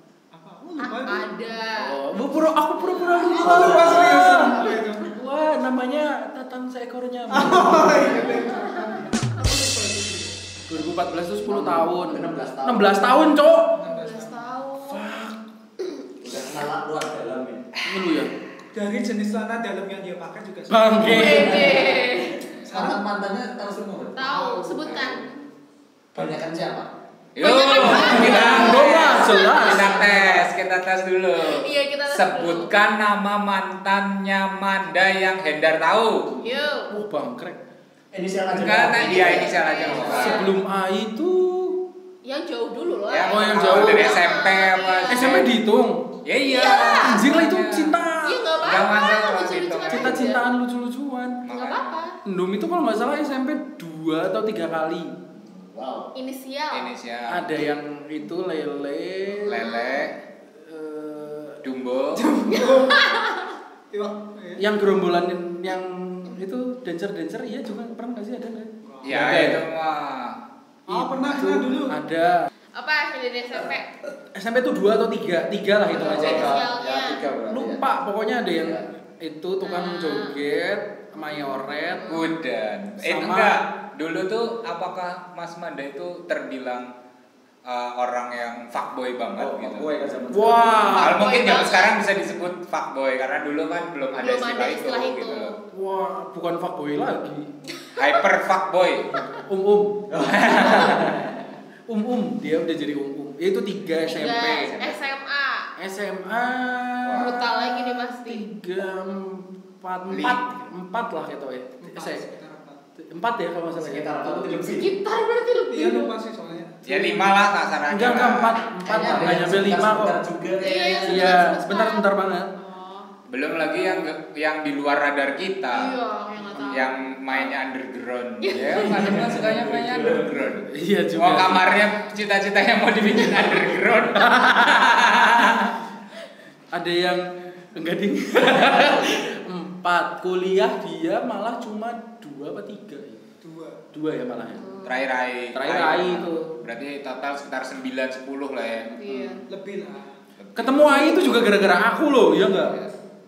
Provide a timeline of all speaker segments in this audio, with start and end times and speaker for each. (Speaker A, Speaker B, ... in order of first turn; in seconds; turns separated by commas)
Speaker A: 0.3-1.3, Speaker B: 0.8-2.0, Speaker C: 1.8-8.4, Speaker A: 3.2-5.1, Speaker D: 3.4-4.3, Speaker B: 4.6-4.9, Speaker A: 7.3-10.4, Speaker C: 10.7-13.7, Speaker D: 11.4-13.0, Speaker A: 13.7-14.6, Speaker B: 13.8-15.0, Speaker C: 14.8-15.4, Speaker D: 16.2-17.7, Speaker C: 17.9-18.3, Speaker A: 18.7-22.0, Speaker C: 20.7-21.8, Speaker B: 21.0-22.4, Speaker D: 21.2-24.3, Speaker A: 22.7-23.0, Speaker B: 24.1-25.4, Speaker A: 24.2-24.9, Speaker D: 24.9-25.2, Speaker D: 26.1-26.9, Speaker E: 27.3-36.3, Speaker B: 27.4-30.1, Speaker C: 27.9-30.4, Speaker B: 31.4-32.7, Speaker B: 36.4-36.9, Speaker C: 36.8-37.6, Speaker D: 38.1-40.4, Speaker E: 38.5-40.5, Speaker B: 39.1-40.5, Speaker C: 40.0-41.8, Speaker B: 42.2-45.4, Speaker E: 43.1-45.5, Speaker C: 43.3-44.1, Speaker C: 45.1-46.0, Speaker E: 46.2-47.9, Speaker B: 46.5-47.2, Speaker C: 47.0-48.5, Speaker B: 48.2-50.4, Speaker E: 48.6-50.2, Speaker C: 49.9-51.4, Speaker E: 51.4-52.0, Speaker B: 51.5-52.2, Speaker C: 52.2-55.2, Speaker D: 55.3-56.1, Speaker B: 56.1-56.9, Speaker E: 56.7-57.5, Speaker C: 57.3-59.6, Speaker E: 59.5-60.1, Speaker B: 59.5-60.1, Speaker C: 60.6-61.6, Speaker E: 61.6-62.3, Speaker A: 62.1-63.0, Speaker B: 62.5-63.5, Speaker A: 63.9-64.6, Speaker C: 64.6-69.6, Speaker A: 68.8-69.2, Speaker E: 69.0-70.4, Speaker A: 70.9-72.0, Speaker C: 70.9-72.5, Speaker B: 72.7-73.9, Speaker C: 74.3-76.6, Speaker D: 75.9-77.9, Speaker E: 76.1-76.5, Speaker B: 76.2-77.2, Speaker C: 77.5-82.1, Speaker D: 78.5-78.8, Speaker B: 79.6-80.3, Speaker B: 81.2-82.3, Speaker E: 82.1-86.9, Speaker C: 83.0-83.6, Speaker E: 87.6-89.9, Speaker D: 89.4-91.0, Speaker C: 90.3-91.3, Speaker E: 90.9-95.5, Speaker B: 91.0-92.0, Speaker B: 94.2-95.6, Speaker C: 95.7-97.5, Speaker B: 97.7-98.2, Speaker E: 98.0-99.1, Speaker C: 99.3-104.8, Speaker D: 100.1-101.1, Speaker B: 104.0-105.7, Speaker E: 104.4-105.0, Speaker C: 105.8-112.2, Speaker E: 107.0-107.4, Speaker B: 107.2-108.5, Speaker E: 110.1-110.4, Speaker A: 111.8-112.8, Speaker C: 113.0-114.8, Speaker D: 113.8-114.9, Speaker B: 114.7-116.1, Speaker A: 115.7-117.3, Speaker E: 116.8-118.6, Speaker C: 117.9-120.2, Speaker D: 118.8-121.5, Speaker B: 120.6-123.1, Speaker C: 121.0-122.5, Speaker E: 123.3-125.9, Speaker B: 125.7-126.9, Speaker E: 126.7-135.7, Speaker B: 128.4-129.2, Speaker D: 128.8-130.4, Speaker C: 129.1-129.5, Speaker C: 130.7-131.7, Speaker C: 134.1-135.7, Speaker C: 136.7-143.2, Speaker A: 143.4-143.8, Speaker C: 143.9-144.7, Speaker B: 144.5-145.0, Speaker E: 144.8-148.9, Speaker C: 145.5-146.5, Speaker C: 148.9-149.4, Speaker B: 149.0-149.4, Speaker A: 149.5-150.1, Speaker E: 150.4-151.2, Speaker C: 150.6-152.8, Speaker E: 152.3-152.9